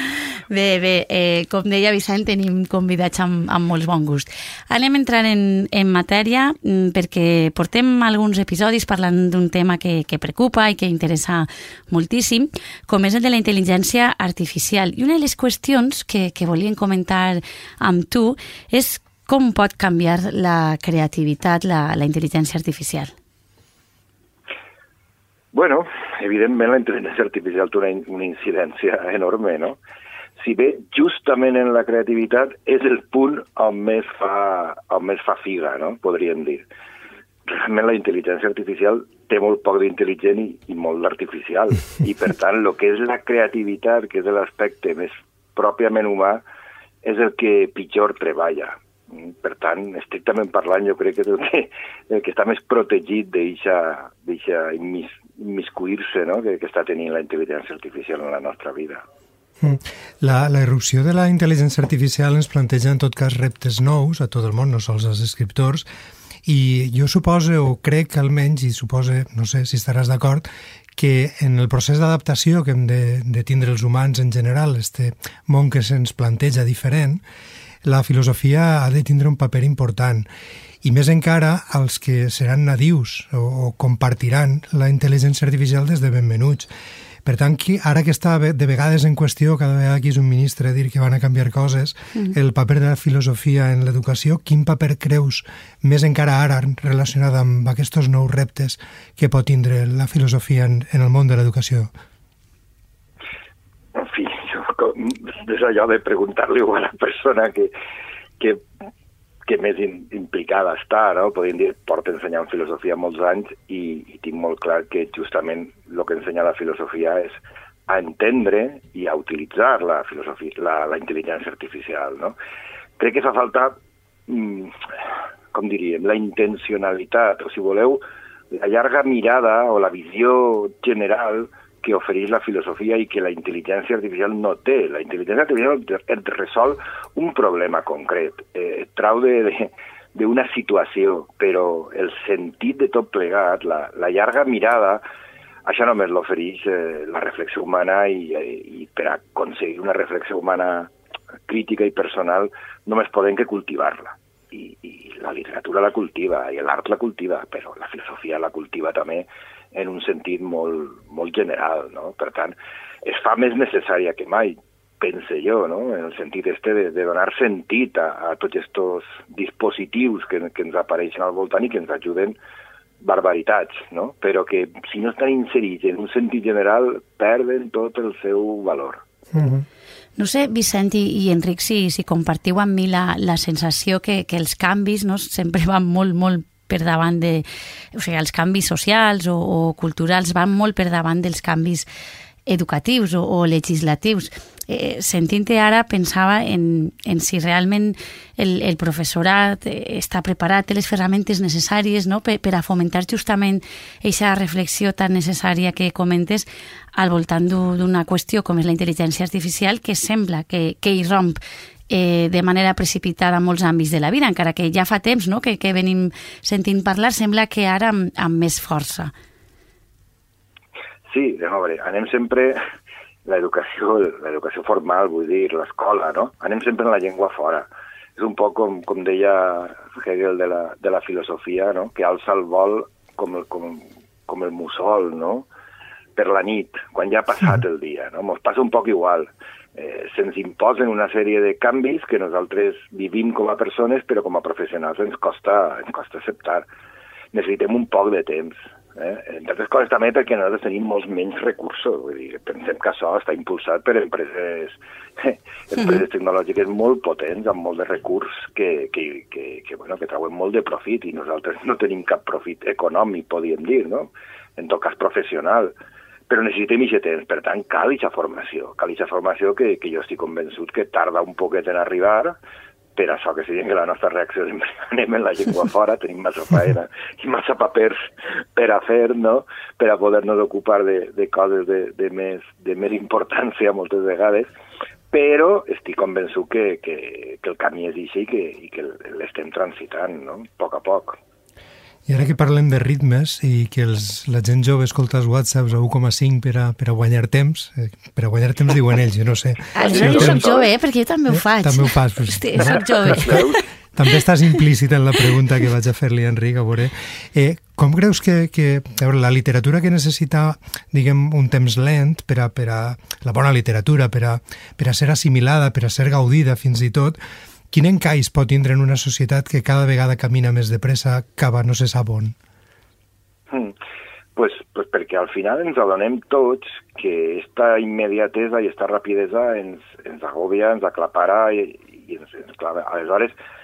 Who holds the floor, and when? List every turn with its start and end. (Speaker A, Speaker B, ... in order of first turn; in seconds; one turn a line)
Speaker A: 0.5-23.1
Speaker B: 25.5-29.8
Speaker B: 30.4-36.7
Speaker B: 37.5-46.4
Speaker B: 47.0-59.0
Speaker C: 59.6-65.9
Speaker C: 66.5-77.2
Speaker C: 77.8-80.3
Speaker C: 80.8-86.7
Speaker C: 87.2-101.9
Speaker B: 104.0-107.7
Speaker B: 109.5-122.4
Speaker B: 123.0-124.8
Speaker B: 125.5-128.0
Speaker B: 128.5-145.0
Speaker B: 145.7-150.9
Speaker B: 151.5-172.4
Speaker B: 173.0-179.0
Speaker C: 179.3-179.7
Speaker A: 180.2-191.9
Speaker A: 192.5-211.4
Speaker A: 211.9-219.1
Speaker B: 221.1-222.6
Speaker B: 223.3-235.5
Speaker B: 236.2-246.7
Speaker B: 247.3-265.7
Speaker B: 266.3-272.4
Speaker B: 273.0-278.0
Speaker B: 278.6-284.5
Speaker B: 285.1-291.2
Speaker C: 292.1-300.4
Speaker A: 299.8-303.6
Speaker B: 299.8-300.7
Speaker C: 301.3-317.2
Speaker B: 303.1-303.6
Speaker C: 317.7-322.4
Speaker B: 323.5-323.8
Speaker B: 324.4-333.4